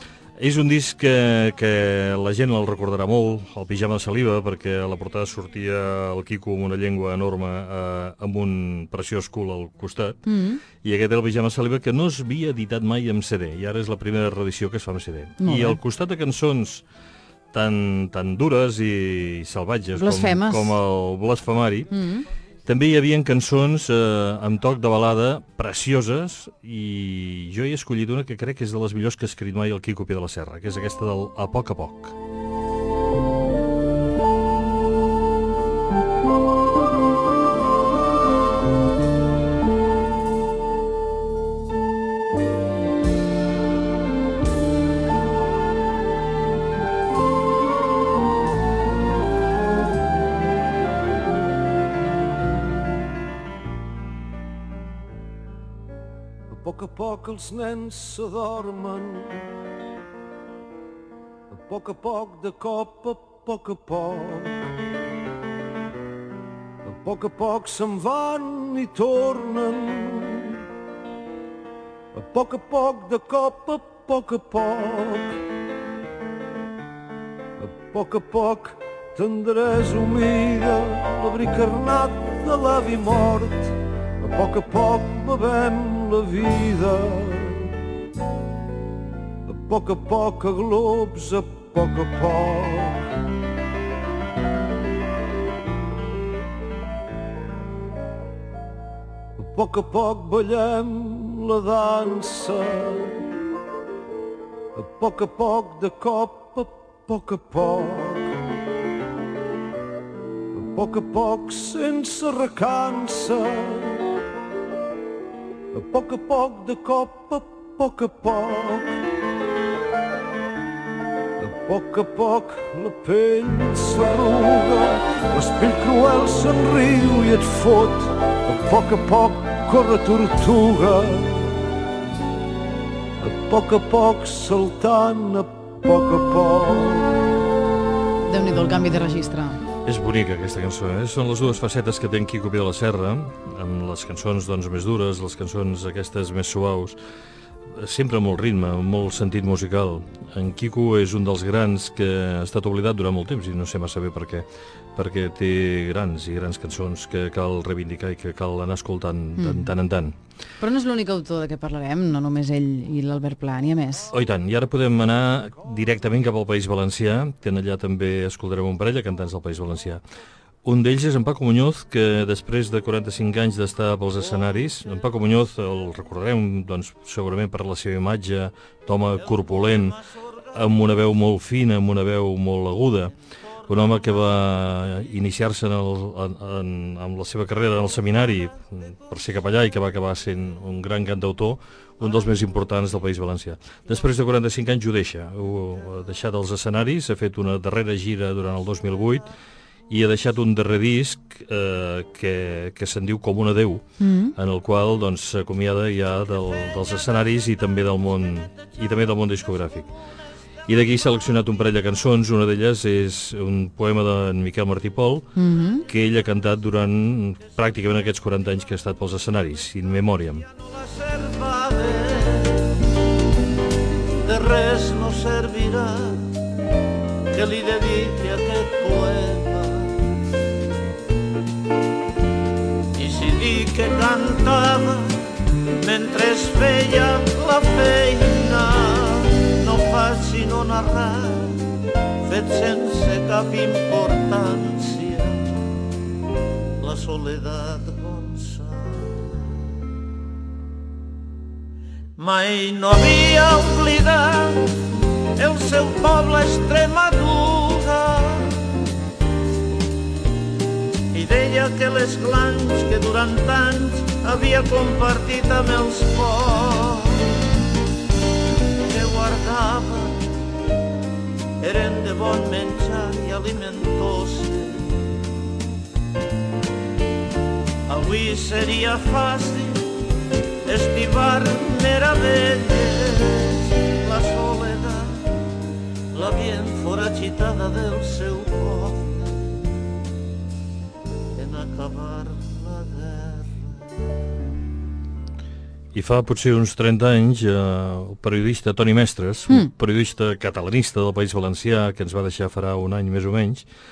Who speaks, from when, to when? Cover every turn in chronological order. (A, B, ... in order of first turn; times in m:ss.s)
0:00.4-0:10.2 A
0:10.3-0:10.6 B
0:10.8-0:16.8 A
0:15.4-0:15.8 B
0:17.5-0:21.9 A
0:20.0-0:20.8 B
0:21.9-0:22.3 B
0:22.7-0:32.2 A
0:56.5-0:59.4 C
1:01.5-1:04.6 C
1:06.8-1:10.6 C
1:12.1-1:15.4 C
1:17.6-1:27.7 C
1:29.5-1:33.1 C
1:39.4-1:43.2 C
1:44.8-1:48.4 C
1:50.5-1:54.0 C
1:55.7-1:59.0 C
2:01.4-2:11.6 C
2:13.2-2:17.1 C
2:18.3-2:19.6 B
2:19.8-2:27.0 A
2:27.8-2:40.1 A
2:39.4-2:39.7 B
2:40.6-2:44.1 B
2:44.1-2:50.0 A
2:50.6-3:00.0 A
3:00.5-3:03.1 A
3:03.7-3:19.3 A
3:19.9-3:29.9 A
3:24.0-3:24.3 B
3:30.7-3:35.3 A
3:35.4-3:35.9 B
3:35.9-3:40.5 A
3:40.7-3:42.8 D
3:44.2-3:46.3 D
3:47.3-3:50.0 D
3:53.0-3:55.2 D
3:55.8-4:01.6 D
4:02.2-4:05.6 D
4:06.8-4:09.4 D
4:12.2-4:14.7 D
4:15.4-4:18.6 D
4:21.1-4:27.3 D
4:28.8-4:30.2 D
4:31.6-4:34.9 D
4:37.9-4:39.9 D
4:40.6-4:45.3 D
4:46.1-4:49.6 D
4:51.4-4:53.6 D
4:55.9-5:03.6 A